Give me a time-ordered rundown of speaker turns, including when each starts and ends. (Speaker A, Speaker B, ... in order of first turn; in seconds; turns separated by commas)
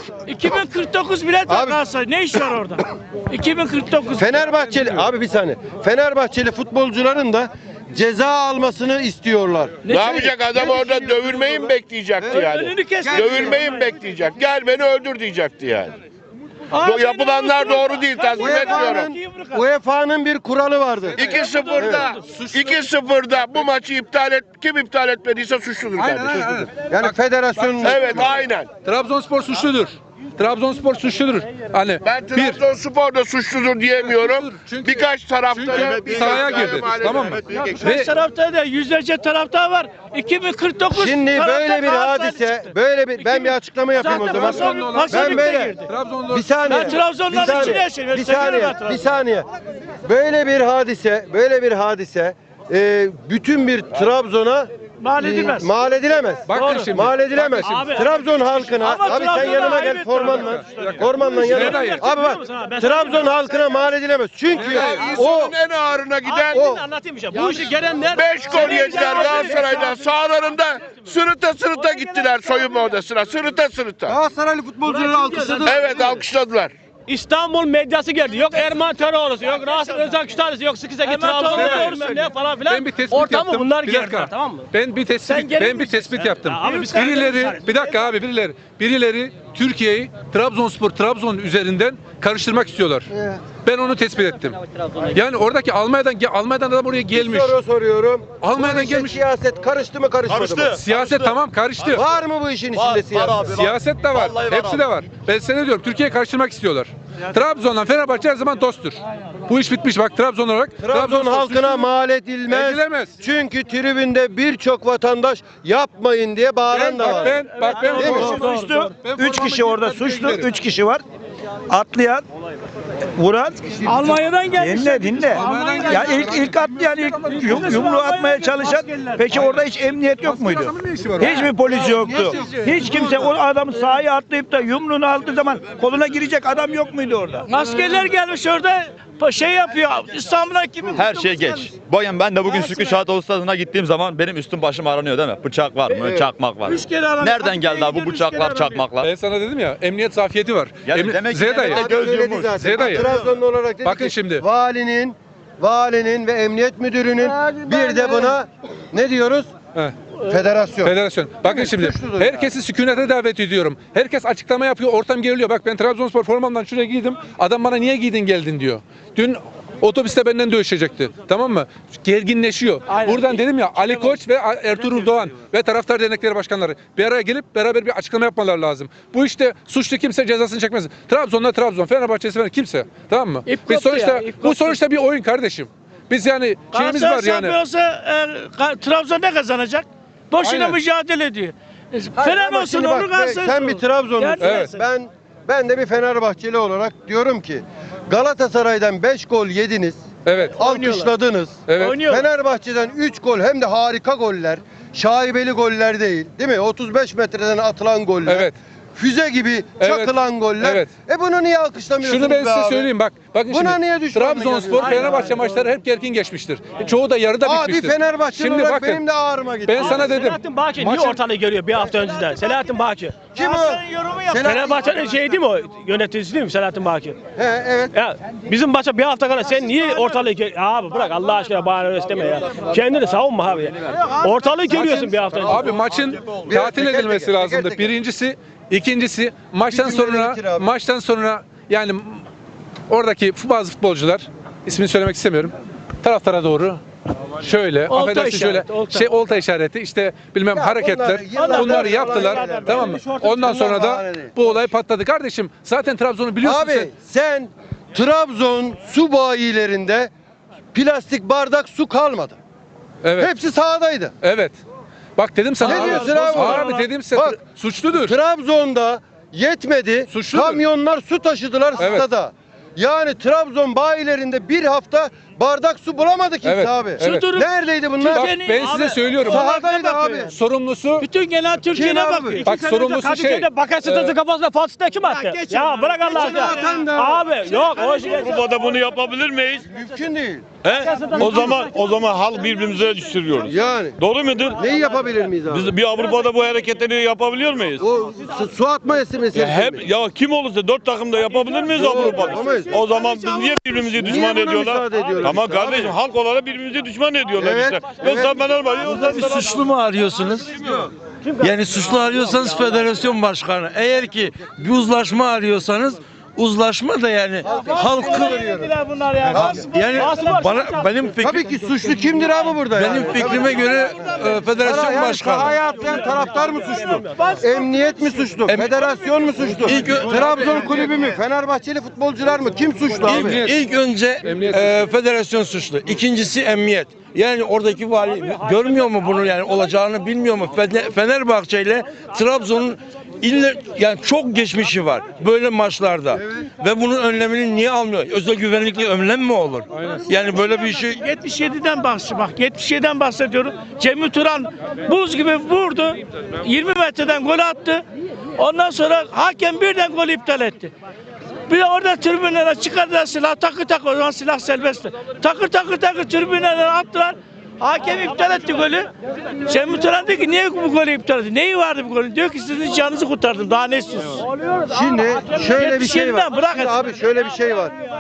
Speaker A: 0.3-5.0, Speaker B: 1.5-1.8, Speaker B: 4.2-12.4, Speaker A: 9.8-10.3, Speaker C: 9.9-16.0, Speaker A: 12.3-13.6, Speaker B: 13.0-13.6, Speaker A: 16.7-19.6, Speaker C: 16.8-19.1, Speaker B: 18.3-22.1, Speaker C: 21.2-26.6, Speaker A: 21.2-22.2, Speaker D: 22.2-22.8, Speaker D: 25.9-27.9, Speaker B: 26.8-28.4, Speaker C: 27.8-28.7, Speaker D: 28.8-32.6, Speaker C: 32.0-37.4, Speaker D: 34.0-38.1, Speaker E: 35.7-37.9, Speaker A: 37.5-45.9, Speaker B: 40.9-49.5, Speaker D: 44.1-46.9, Speaker A: 46.6-49.0, Speaker B: 50.0-65.5, Speaker A: 55.0-55.7, Speaker D: 56.5-58.0, Speaker F: 56.5-58.6, Speaker A: 58.7-61.7, Speaker D: 60.5-62.0, Speaker F: 61.2-64.0, Speaker D: 64.5-65.2, Speaker C: 64.6-66.6, Speaker F: 64.8-65.2, Speaker F: 66.2-70.0, Speaker B: 66.5-66.8, Speaker C: 68.1-74.2, Speaker B: 68.2-68.8, Speaker A: 68.6-69.8, Speaker B: 74.0-76.2, Speaker F: 74.9-76.2, Speaker C: 75.7-76.7, Speaker F: 77.1-84.7, Speaker A: 81.0-82.3, Speaker D: 81.5-82.0, Speaker D: 82.7-97.6, Speaker F: 85.2-88.0, Speaker B: 93.1-93.4, Speaker B: 97.1-100.8, Speaker D: 98.4-99.2, Speaker E: 100.3-102.0, Speaker D: 100.8-102.0, Speaker B: 101.9-103.5, Speaker E: 102.7-104.8, Speaker D: 103.5-111.9, Speaker B: 110.8-117.4, Speaker D: 112.5-113.2, Speaker D: 116.7-120.5, Speaker G: 117.6-121.0, Speaker B: 118.0-118.4, Speaker G: 121.7-122.2, Speaker G: 123.1-137.4, Speaker A: 123.8-126.2, Speaker D: 125.2-128.1, Speaker A: 127.5-129.1, Speaker D: 129.2-129.6, Speaker D: 130.2-133.3, Speaker A: 137.5-141.7, Speaker E: 140.9-149.1, Speaker A: 142.5-142.9, Speaker A: 145.9-146.1, Speaker A: 146.7-148.8, Speaker D: 149.0-151.9, Speaker E: 150.8-153.0, Speaker B: 151.7-159.5, Speaker D: 152.6-153.1, Speaker D: 153.8-154.4, Speaker B: 160.2-162.5, Speaker D: 160.8-187.6, Speaker A: 172.9-173.2, Speaker A: 183.5-184.8, Speaker A: 186.7-194.8, Speaker B: 190.4-190.8, Speaker B: 192.2-200.0, Speaker D: 194.4-194.7, Speaker D: 200.3-200.6, Speaker B: 200.5-212.9, Speaker A: 200.6-201.1, Speaker D: 201.7-202.0, Speaker A: 201.8-202.3, Speaker D: 208.2-208.6, Speaker D: 209.8-210.9, Speaker D: 212.0-219.0, Speaker B: 213.5-215.2, Speaker F: 214.8-215.4, Speaker B: 217.4-220.1, Speaker D: 219.7-221.2, Speaker F: 219.7-223.3, Speaker B: 223.3-224.8, Speaker A: 223.4-224.2, Speaker F: 224.3-227.2, Speaker B: 227.4-227.9, Speaker F: 227.9-235.8, Speaker D: 234.7-242.2, Speaker B: 236.4-238.0, Speaker B: 239.7-240.7, Speaker D: 242.9-246.8, Speaker D: 247.4-256.9, Speaker A: 247.9-249.1, Speaker B: 250.5-254.6, Speaker F: 251.3-253.6, Speaker B: 256.4-260.1, Speaker B: 260.7-262.4, Speaker D: 263.0-263.3, Speaker B: 263.2-264.1, Speaker D: 264.2-264.6, Speaker D: 265.2-268.2, Speaker F: 265.6-266.9, Speaker B: 265.6-267.4, Speaker A: 266.0-266.4, Speaker B: 267.9-278.4, Speaker D: 270.1-270.6, Speaker D: 271.8-272.1, Speaker D: 276.4-277.3, Speaker A: 277.0-280.2, Speaker D: 278.1-279.5, Speaker F: 278.6-279.0, Speaker B: 279.2-280.3, Speaker D: 280.3-281.1, Speaker A: 281.0-282.5, Speaker B: 281.7-282.4, Speaker F: 282.4-288.5, Speaker D: 282.4-284.1, Speaker B: 286.0-287.2, Speaker H: 287.8-289.6, Speaker A: 287.8-288.5, Speaker B: 289.6-290.5, Speaker H: 290.6-294.6, Speaker F: 290.6-291.8, Speaker B: 291.1-291.7, Speaker B: 293.4-294.0, Speaker B: 294.5-295.8, Speaker H: 295.5-297.9, Speaker B: 297.8-299.9, Speaker H: 299.3-309.5, Speaker B: 301.6-302.9, Speaker A: 302.6-304.0, Speaker B: 303.9-306.0, Speaker B: 307.4-308.5, Speaker I: 308.0-310.7, Speaker I: 311.4-318.5, Speaker B: 317.4-319.6, Speaker A: 318.2-319.9, Speaker I: 319.3-321.5, Speaker F: 319.9-320.9, Speaker B: 321.2-333.4, Speaker I: 322.7-325.6, Speaker A: 323.2-323.8, Speaker F: 325.6-327.5, Speaker A: 327.2-328.1, Speaker I: 328.5-328.8, Speaker I: 329.6-330.6, Speaker D: 330.0-330.6, Speaker I: 333.0-351.1, Speaker D: 333.1-333.6, Speaker D: 334.2-334.7, Speaker D: 349.7-350.0, Speaker A: 351.0-357.8, Speaker A: 358.4-360.7, Speaker A: 361.5-368.9, Speaker A: 369.4-374.3, Speaker B: 374.7-377.7, Speaker A: 375.3-376.8